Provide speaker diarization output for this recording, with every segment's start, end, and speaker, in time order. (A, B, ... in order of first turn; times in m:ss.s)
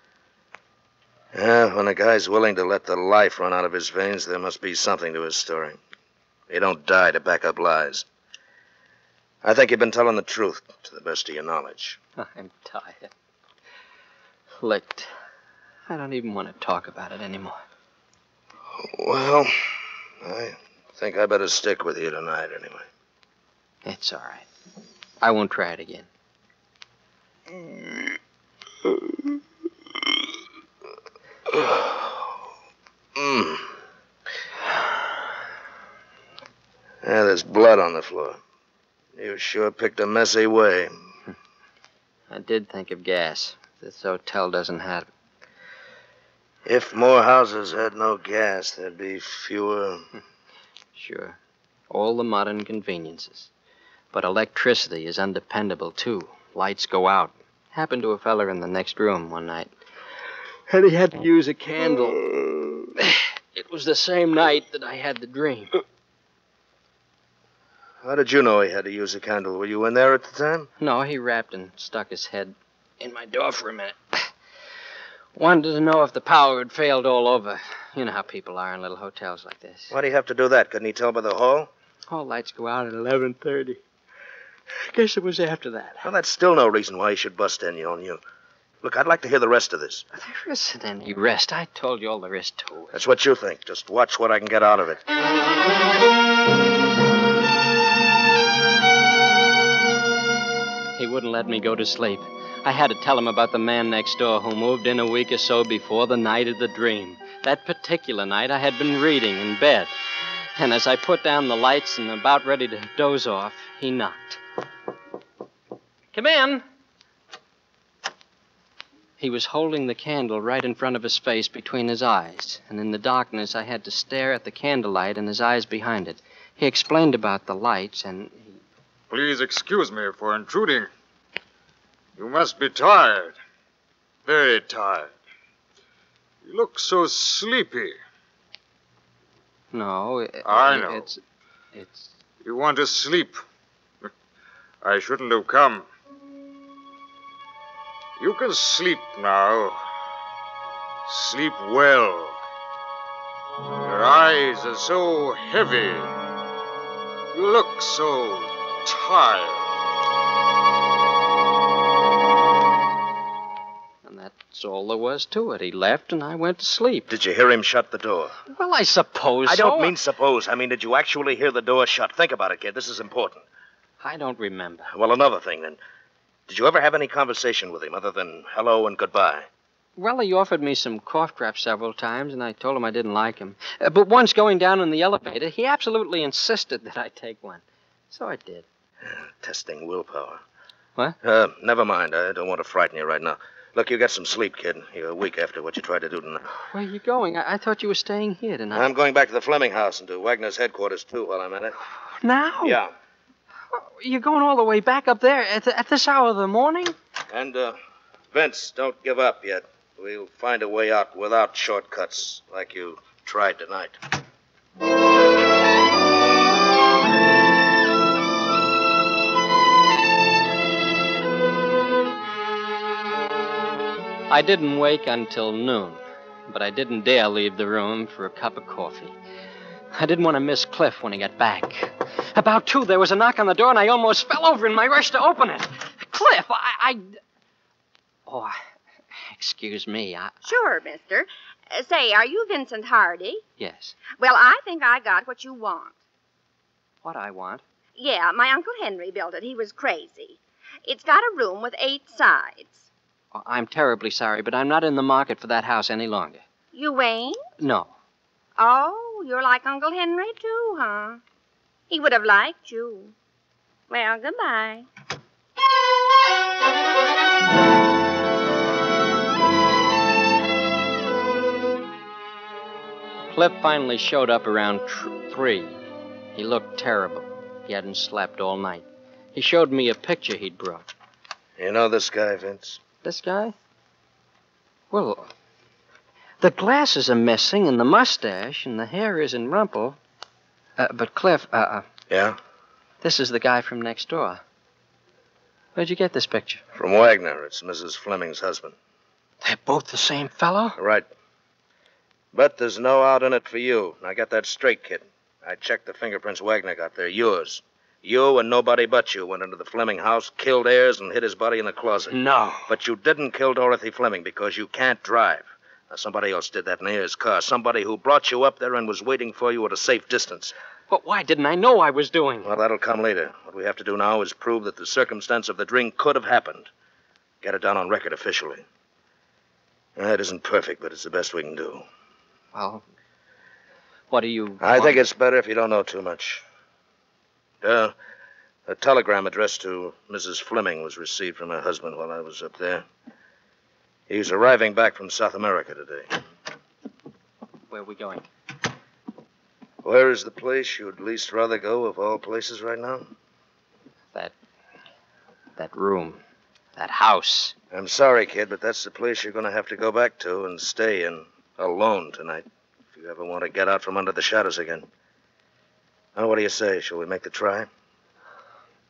0:01.3-0:05.8 A
0:06.5-0:08.1 A
0:09.4-0:12.0 A
0:12.2-0:13.1 B
0:14.6-0:15.1 B
0:15.9-0:17.6 B
0:18.8-0:19.5 A
0:20.2-0:22.8 A
0:23.8-0:24.5 B
0:25.2-0:26.1 B
0:27.5-0:28.0 A
0:31.5-0:32.2 A
0:33.2-0:33.7 A
0:37.0-0:38.4 A
0:39.2-0:40.9 A
0:42.3-0:45.1 B
0:46.6-0:50.0 A
0:50.9-0:51.4 B
0:51.9-0:53.5 B
0:54.1-0:59.7 B
1:00.7-1:02.3 B
1:03.0-1:05.8 B
1:08.0-1:10.7 A
1:10.8-1:14.3 B
1:15.4-1:19.9 B
1:19.9-1:21.7 A
1:22.1-1:23.8 B
1:24.9-1:26.0 B
1:26.0-1:28.2 A
1:28.8-1:30.0 A
1:30.1-1:32.9 B
1:32.9-1:35.0 A
1:41.0-1:49.9 B
1:50.6-1:54.4 B
1:56.1-1:56.6 B
1:59.2-2:08.6 B
2:09.1-2:10.9 C
2:12.2-2:13.4 C
2:14.2-2:15.2 C
2:16.4-2:18.0 C
2:19.7-2:21.2 B
2:20.4-2:21.1 C
2:21.7-2:22.1 B
2:22.4-2:23.4 C
2:24.8-2:25.8 C
2:28.2-2:29.8 C
2:31.0-2:32.4 C
2:33.8-2:36.1 C
2:37.3-2:39.7 C
2:44.0-2:47.1 B
2:47.1-2:48.4 A
2:48.5-2:49.9 B
2:49.4-2:53.4 A
2:54.0-2:54.9 B
2:54.9-2:55.8 A
2:56.5-2:59.5 A
3:00.0-3:08.6 B
3:09.0-3:10.4 A
3:11.2-3:16.5 A
3:16.7-3:18.8 B
3:18.7-3:21.8 A
3:22.2-3:22.8 B
3:22.6-3:22.9 A
3:23.7-3:26.9 B
3:27.3-3:27.8 A
3:28.3-3:34.0 A
3:44.3-3:49.1 B
3:49.9-3:57.2 B
3:58.3-3:58.6 B
3:59.2-4:00.5 B
4:00.4-4:03.4 D
4:03.6-4:04.0 B
4:04.2-4:06.0 D
4:07.0-4:07.6 B
4:08.0-4:12.9 D
4:13.3-4:16.4 B
4:16.7-4:17.4 D
4:17.6-4:17.9 B
4:18.6-4:21.2 D
4:21.9-4:23.1 D
4:23.9-4:24.8 D
4:33.3-4:35.8 B
4:36.3-4:40.9 B
4:41.6-4:42.8 A
4:43.0-4:43.5 B
4:44.9-4:45.3 B
4:46.4-4:50.0 B
4:50.8-4:51.8 B
4:52.1-4:52.4 A
4:53.0-4:54.4 B
4:55.7-4:56.6 B
4:56.7-4:58.7 A
4:59.4-5:00.8 B
5:00.8-5:01.0 A
5:02.3-5:12.2 A
5:12.1-5:12.7 B
5:12.7-5:20.5 A
5:20.9-5:22.5 B
5:22.4-5:26.7 A
5:27.4-5:28.6 A
5:30.0-5:31.8 A
5:32.5-5:32.8 B
5:34.1-5:35.0 B
5:34.6-5:36.4 A
5:37.6-5:37.9 A
5:38.7-5:42.8 A
5:44.1-5:46.2 A
5:47.7-5:48.2 B
5:49.8-5:53.1 A
5:55.6-5:56.2 B
5:56.8-5:57.5 B
5:57.7-6:04.9 A
6:06.2-6:07.7 A